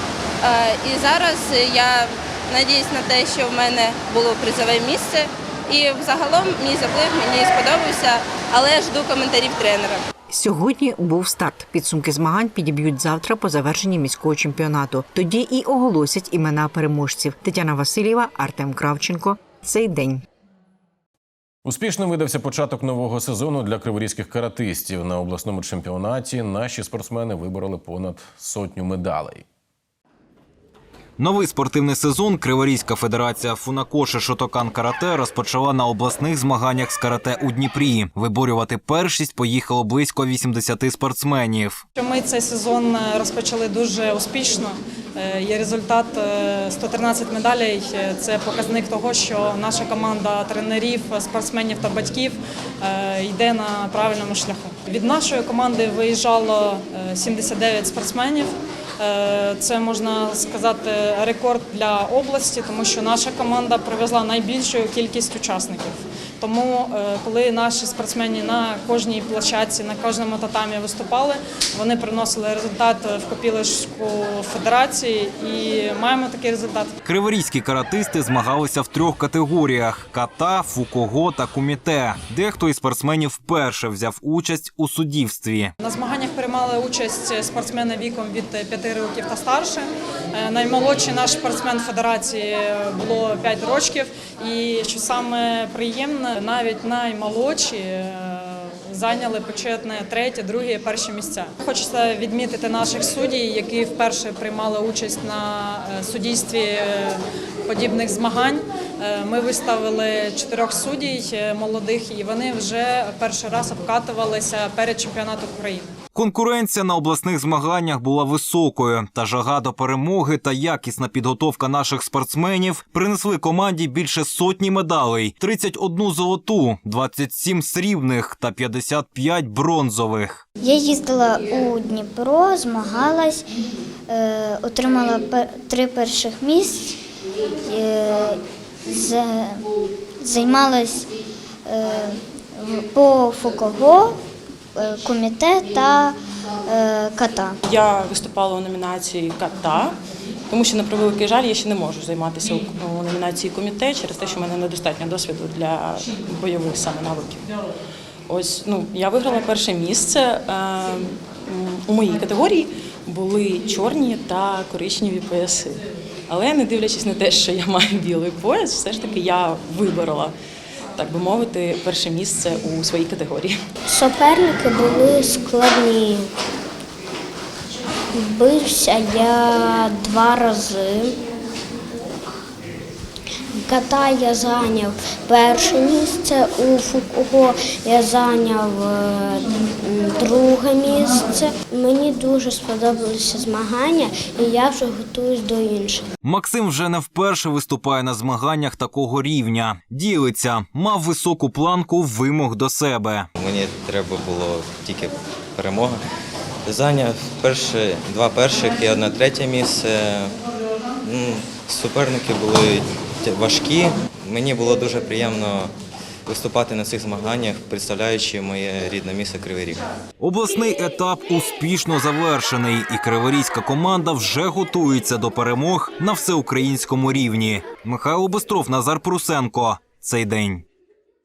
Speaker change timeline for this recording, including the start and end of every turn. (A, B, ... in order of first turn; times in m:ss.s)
0:00.4-0:10.0 A
0:10.3-0:20.2 B
0:21.6-0:29.4 C
0:31.2-0:41.8 D
0:42.0-1:16.9 E
1:17.0-1:25.7 D
1:25.8-1:55.9 E
1:56.1-2:10.4 D
2:10.6-2:13.4 F
2:14.1-2:17.0 F
2:17.6-2:19.7 F
2:20.2-2:21.1 F
2:21.7-2:24.2 F
2:24.8-2:26.2 F
2:26.7-2:27.6 F
2:27.7-2:30.0 G
2:30.5-2:37.5 G
2:38.3-2:50.3 G
2:51.0-2:53.6 G
2:53.9-2:56.3 F
2:58.2-3:01.2 F
3:03.6-3:16.0 F
3:16.2-3:23.3 D
3:23.4-3:26.0 H
3:26.7-3:30.4 H
3:31.0-3:35.7 H
3:36.3-3:39.9 H
3:40.2-3:50.7 D